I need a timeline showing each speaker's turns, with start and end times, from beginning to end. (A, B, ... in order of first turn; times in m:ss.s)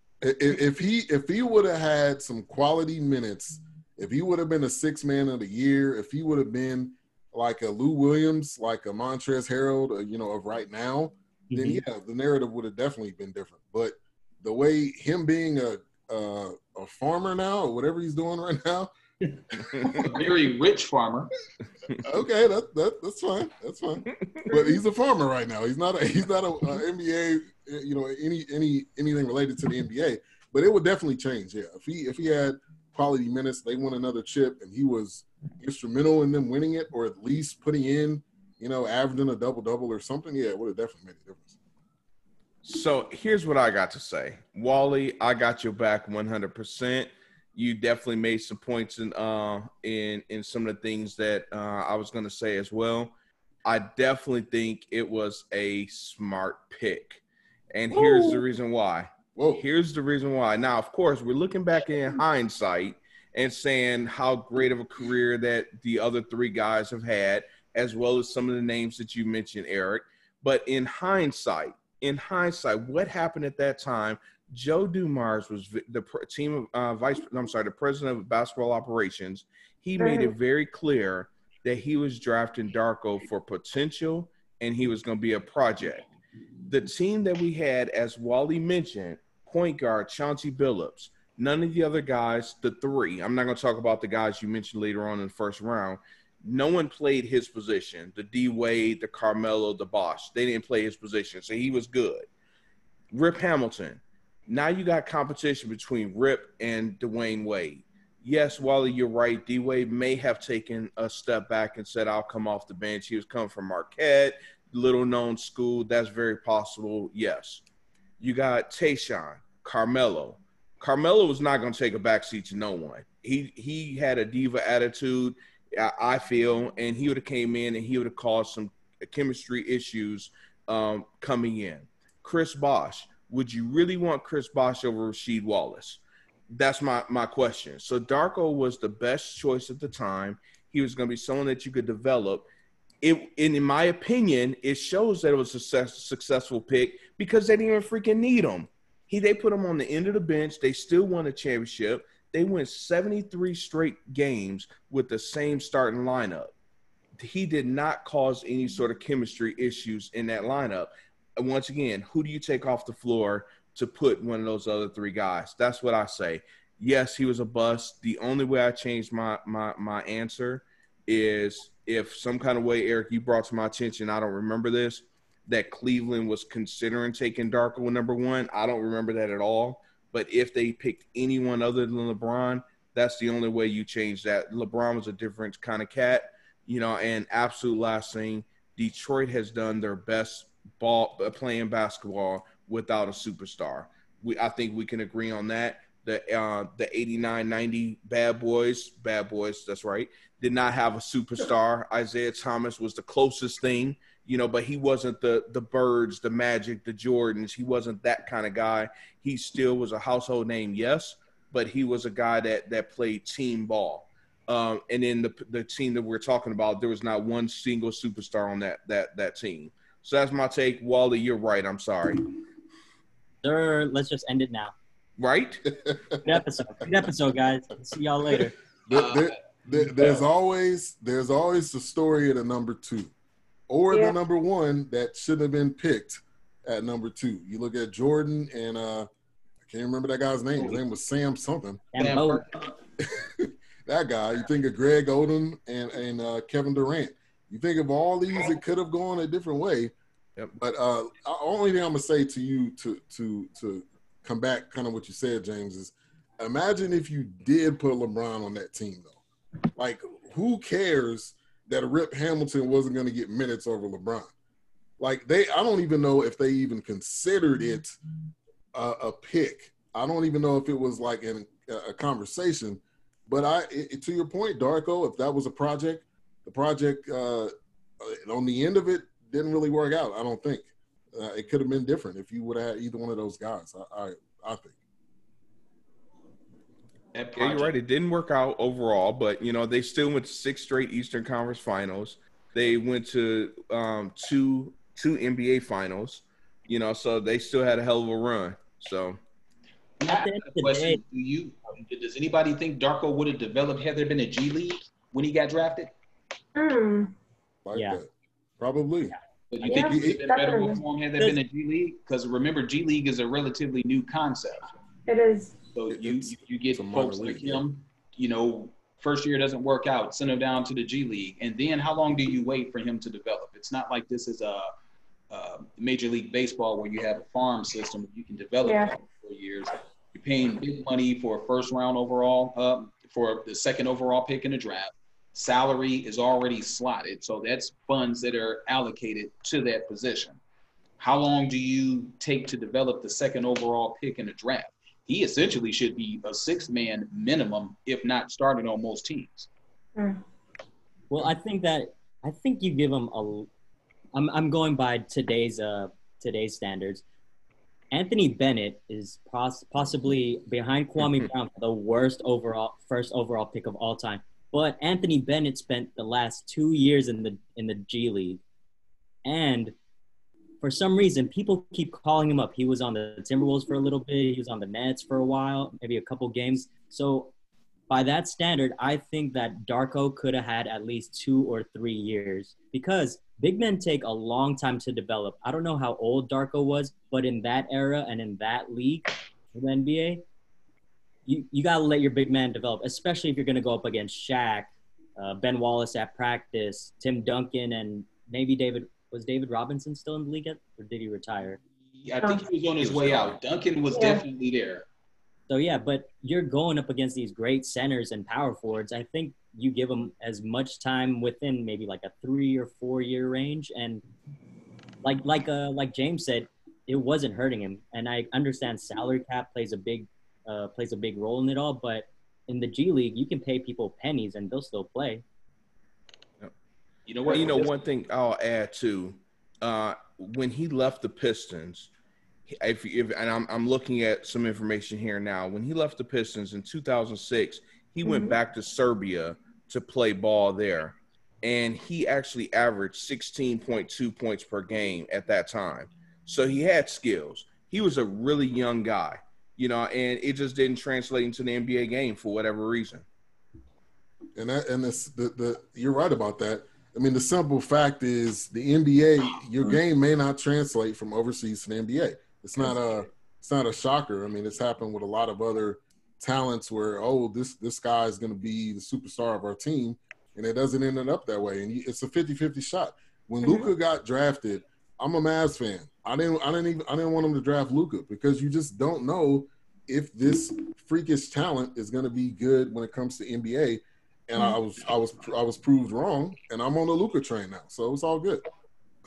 0:00.2-0:18.9 A
0:19.7-0:20.0 B
0:19.8-0:20.2 A
0:19.9-0:21.3 C
0:22.0-0:41.6 A
0:42.6-1:26.1 B
0:57.9-0:58.4 D
0:59.4-0:59.6 A
1:20.0-1:20.3 D
1:26.7-1:42.3 B
1:43.1-1:57.6 B
1:58.2-2:22.5 B
2:23.0-2:36.5 B
2:37.2-3:42.3 B
3:43.4-3:44.7 E
3:45.2-3:45.7 B
3:45.9-3:46.2 A
3:46.2-3:48.5 E
3:48.9-3:53.1 A
3:48.9-3:50.2 C
3:53.7-3:59.1 A
3:59.6-4:01.8 A
4:01.9-4:02.4 E
4:02.0-4:02.7 C
4:03.0-4:09.9 A
4:10.6-4:19.2 A
4:19.8-4:24.3 A
4:25.0-4:28.0 A
4:28.7-4:44.8 A
4:47.1-4:47.7 C
4:47.4-4:59.2 B
5:00.0-5:05.9 C
5:00.0-5:01.0 E
5:06.6-5:07.1 D
5:07.6-5:09.2 A
5:07.7-5:08.0 E
5:09.5-5:14.7 C
5:09.6-5:10.8 D
5:09.7-5:10.2 A
5:15.1-5:15.6 D
5:15.7-5:24.7 C
5:15.9-5:17.6 A
5:25.3-5:40.4 C
5:28.6-5:28.9 D
5:41.0-5:49.5 C
5:51.1-5:53.5 E
5:54.1-5:57.0 E
5:57.9-6:08.4 E
6:09.2-6:09.8 E
6:10.6-6:17.3 E
6:17.9-6:30.2 E
6:31.3-6:41.6 E
6:42.0-6:44.9 C
6:42.8-6:43.4 B
6:43.9-6:44.2 D
6:45.5-6:54.0 E
6:55.0-7:05.2 E
7:07.1-7:07.8 C
7:07.3-7:11.9 B
7:12.5-7:33.0 B
7:18.0-7:18.4 D
7:34.4-8:08.4 A